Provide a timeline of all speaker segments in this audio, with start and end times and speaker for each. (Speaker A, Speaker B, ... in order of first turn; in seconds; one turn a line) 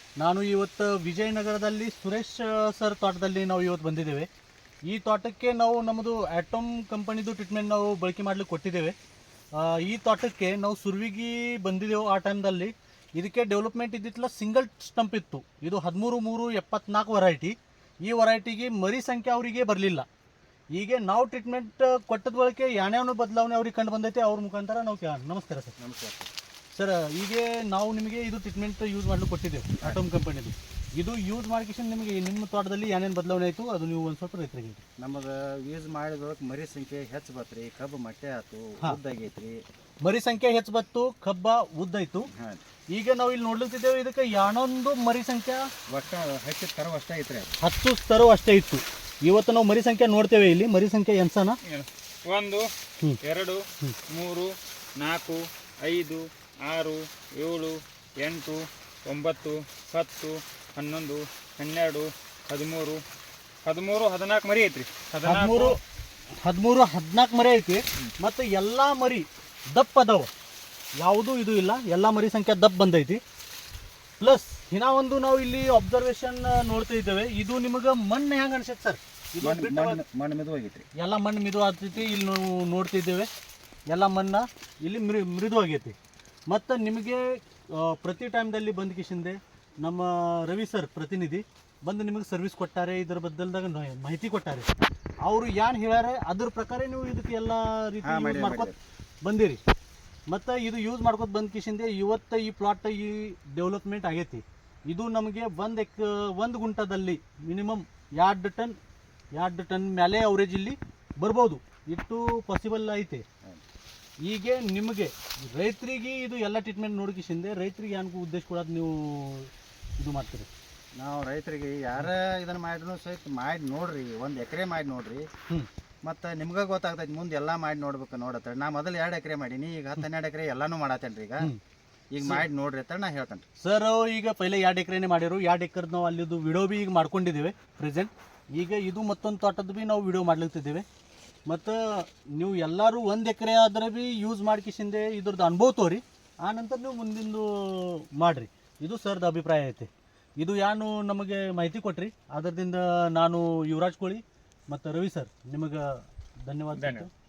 Speaker A: 0.2-4.3
Speaker A: 4.9-8.9
Speaker A: 9.6-17.5
Speaker A: 18.1-20.1
Speaker A: 20.8-25.7
Speaker B: 25.8-26.3
Speaker A: 26.7-34.8
Speaker B: 35.0-39.6
Speaker A: 40.0-42.3
Speaker B: 42.3-42.6
Speaker A: 42.9-45.7
Speaker B: 45.9-47.5
Speaker A: 47.6-51.6
Speaker C: 51.6-52.7
Speaker C: 53.2-63.0
Speaker C: 63.6-65.8
Speaker A: 65.2-65.8
Speaker A: 66.3-70.3
Speaker A: 71.0-73.2
Speaker A: 74.2-80.0
Speaker B: 79.4-80.9
Speaker A: 81.0-83.3
Speaker A: 83.9-86.0
Speaker A: 86.5-94.7
Speaker A: 95.2-98.7
Speaker B: 98.0-98.8
Speaker A: 99.2-99.6
Speaker A: 100.3-108.8
Speaker A: 109.3-113.2
Speaker A: 114.2-120.5
Speaker B: 121.0-125.3
Speaker B: 126.0-131.5
Speaker B: 132.1-133.4
Speaker A: 133.6-140.8
Speaker A: 141.5-157.1
Speaker C: 156.7-157.1